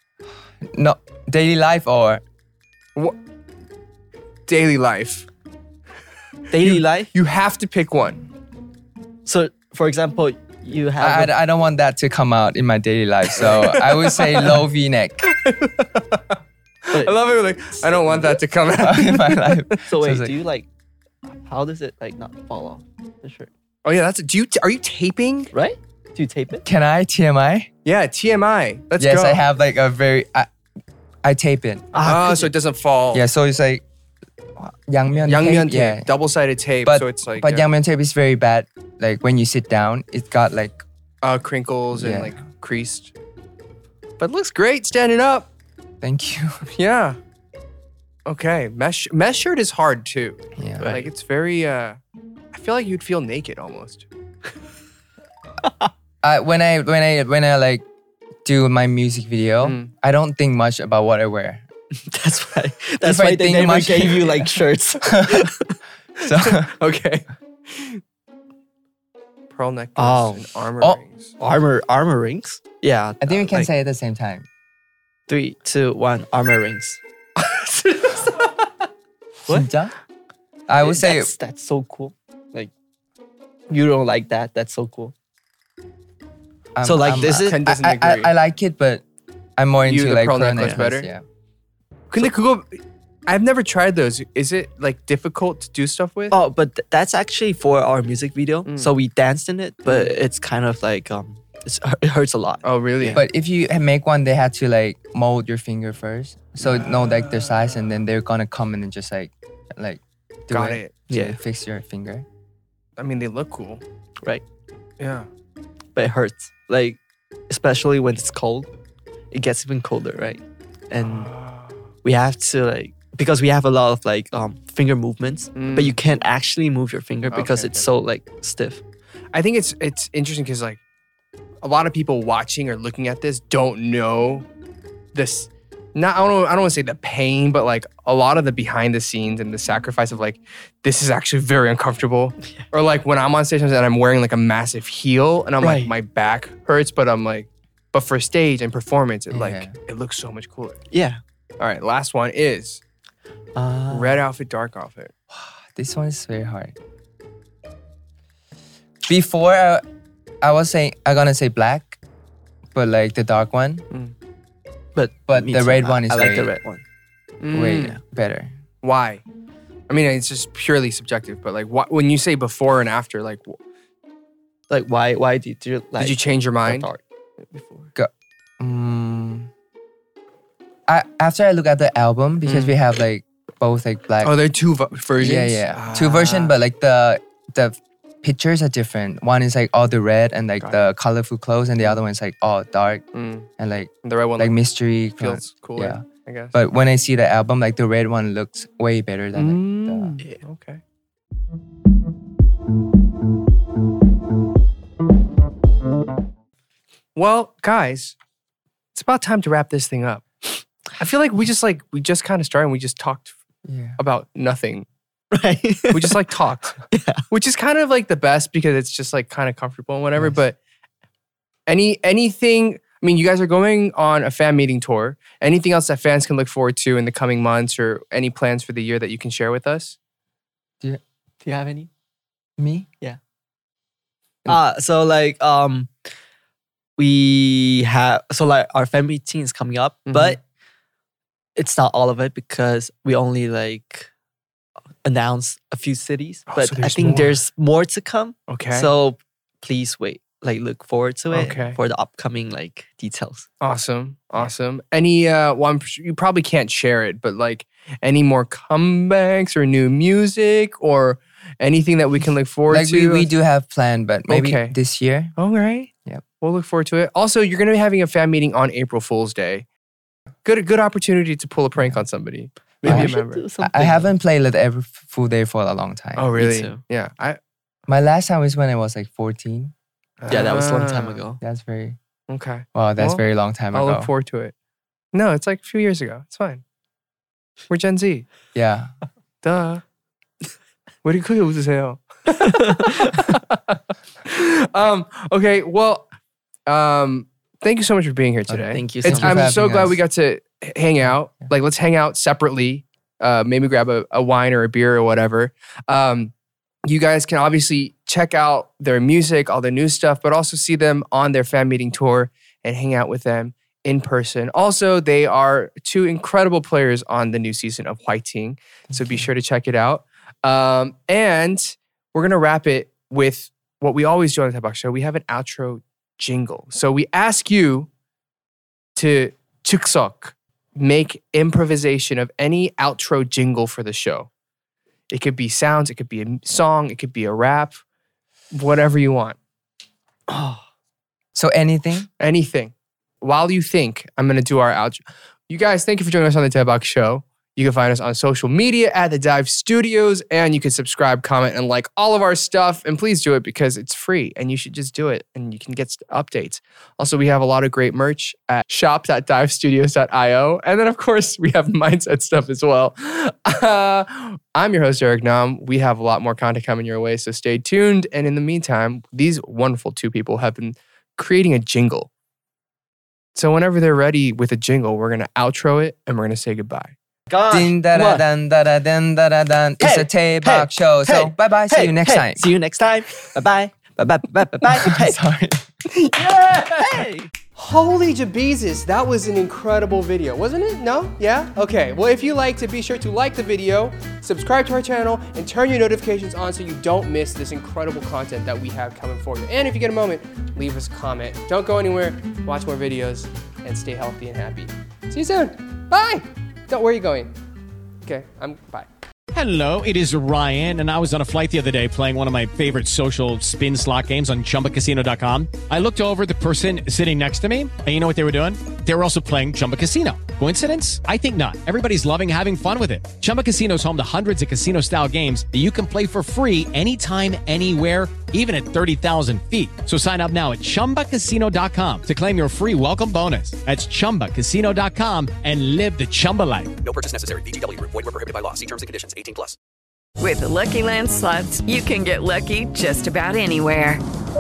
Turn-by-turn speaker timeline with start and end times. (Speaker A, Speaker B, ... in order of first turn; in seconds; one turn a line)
Speaker A: 0.7-2.2
Speaker B: 4.5-5.3
Speaker C: 6.5-7.1
Speaker B: 6.6-8.2
Speaker C: 9.3-11.3
Speaker A: 11.0-15.2
Speaker B: 13.4-14.6
Speaker B: 15.2-16.4
Speaker B: 16.9-19.8
Speaker C: 17.7-18.4
Speaker A: 18.8-20.4
Speaker C: 19.9-20.7
Speaker C: 21.4-23.5
Speaker B: 23.9-25.5
Speaker C: 25.5-26.6
Speaker A: 26.6-27.7
Speaker B: 27.9-29.4
Speaker A: 29.0-30.5
Speaker A: 31.2-31.9
Speaker C: 31.9-32.5
Speaker B: 32.0-33.2
Speaker A: 33.1-33.8
Speaker A: 34.6-36.1
Speaker B: 35.2-37.7
Speaker A: 36.9-40.8
Speaker B: 41.2-43.1
Speaker A: 41.9-42.4
Speaker B: 44.2-45.5
Speaker A: 46.0-46.6
Speaker B: 46.7-47.2
Speaker B: 48.3-52.0
Speaker A: 50.6-51.0
Speaker C: 50.8-51.1
Speaker B: 52.5-54.1
Speaker A: 56.2-57.9
Speaker A: 58.5-61.6
Speaker B: 59.6-59.9
Speaker C: 62.1-65.7
Speaker A: 63.0-65.5
Speaker B: 66.2-68.0
Speaker A: 66.2-66.7
Speaker B: 69.5-71.3
Speaker C: 70.0-70.5
Speaker C: 71.4-73.7
Speaker A: 73.2-74.5
Speaker C: 75.3-77.0
Speaker B: 77.4-78.5
Speaker A: 79.5-79.9
Speaker A: 80.7-81.3
Speaker C: 80.8-82.7
Speaker C: 83.7-85.1
Speaker A: 86.8-89.0
Speaker C: 86.8-87.6
Speaker B: 87.2-88.3
Speaker A: 89.6-91.2
Speaker B: 89.9-91.1
Speaker C: 90.6-90.9
Speaker B: 92.1-96.4
Speaker C: 96.3-103.2
Speaker B: 98.7-98.9
Speaker B: 99.9-100.2
Speaker B: 102.6-103.2
Speaker A: 103.1-112.3
Speaker B: 106.9-107.6
Speaker B: 110.5-111.0
Speaker C: 111.1-111.4
Speaker B: 113.0-113.8
Speaker B: 115.0-115.3
Speaker C: 116.0-117.0
Speaker C: 117.5-118.7
Speaker C: 119.3-121.3
Speaker B: 121.0-121.9
Speaker C: 122.0-128.8
Speaker B: 125.6-126.0
Speaker B: 127.3-127.9
Speaker B: 129.3-130.8
Speaker B: 131.6-134.5
Speaker B: 135.1-150.8
Speaker C: 145.6-145.9
Speaker A: 149.3-149.7
Speaker C: 150.9-151.2
Speaker B: 151.6-152.8
Speaker C: 153.6-154.2
Speaker B: 153.9-155.1
Speaker A: 155.3-156.7
Speaker A: 159.1-159.8
Speaker A: 160.4-162.0
Speaker A: 162.7-163.9
Speaker C: 164.9-166.8
Speaker A: 165.3-166.5
Speaker B: 167.4-168.0
Speaker A: 167.5-168.5
Speaker B: 168.8-169.2
Speaker B: 169.9-173.6
Speaker C: 174.7-177.9
Speaker B: 176.0-176.9
Speaker A: 178.0-179.5
Speaker A: 180.9-184.3
Speaker B: 182.5-182.8
Speaker B: 184.2-186.5
Speaker A: 185.2-193.0
Speaker B: 193.1-193.5
Speaker A: 193.6-196.0
Speaker B: 194.1-194.6
Speaker B: 195.2-196.6
Speaker A: 196.5-200.2
Speaker B: 199.3-200.8
Speaker B: 207.2-208.2
Speaker B: 208.9-210.2
Speaker B: 211.0-213.4
Speaker A: 213.7-214.0
Speaker B: 214.0-214.9
Speaker C: 215.3-216.2
Speaker B: 215.9-220.6
Speaker C: 216.9-217.2
Speaker B: 221.7-230.0
Speaker C: 231.4-231.9
Speaker A: 232.6-232.9
Speaker C: 234.5-235.9
Speaker C: 237.0-240.4
Speaker B: 240.1-240.4
Speaker C: 241.6-244.1
Speaker C: 245.0-253.5
Speaker B: 246.5-247.4
Speaker B: 248.5-248.9
Speaker B: 251.3-251.8
Speaker B: 253.6-263.3
Speaker A: 262.7-265.3
Speaker B: 264.3-264.8
Speaker B: 265.4-269.7
Speaker B: 270.4-273.4
Speaker C: 272.8-274.1
Speaker A: 272.9-276.4
Speaker B: 276.2-277.4
Speaker C: 276.4-276.8
Speaker A: 277.9-279.7
Speaker B: 280.2-281.2
Speaker C: 280.3-281.4
Speaker A: 281.4-282.0
Speaker B: 282.3-284.5
Speaker A: 282.8-284.1
Speaker B: 285.1-286.6
Speaker B: 287.7-288.3
Speaker A: 288.6-288.9
Speaker B: 289.4-289.8
Speaker B: 291.0-296.1
Speaker C: 292.5-293.2
Speaker B: 296.7-306.3
Speaker A: 298.5-300.0
Speaker C: 298.7-299.6
Speaker B: 306.9-327.9
Speaker B: 329.0-334.3
Speaker B: 335.1-337.8
Speaker B: 338.5-339.4
Speaker C: 340.3-340.6
Speaker A: 341.4-342.1
Speaker B: 342.2-372.1
Speaker B: 373.4-376.9
Speaker C: 377.3-378.2
Speaker A: 377.5-382.5
Speaker C: 379.8-385.2
Speaker A: 384.7-385.6
Speaker B: 385.9-407.3
Speaker C: 386.2-387.3
Speaker B: 408.0-408.9
Speaker D: 409.3-436.7
Speaker E: 436.8-439.6
Speaker F: 440.2-444.0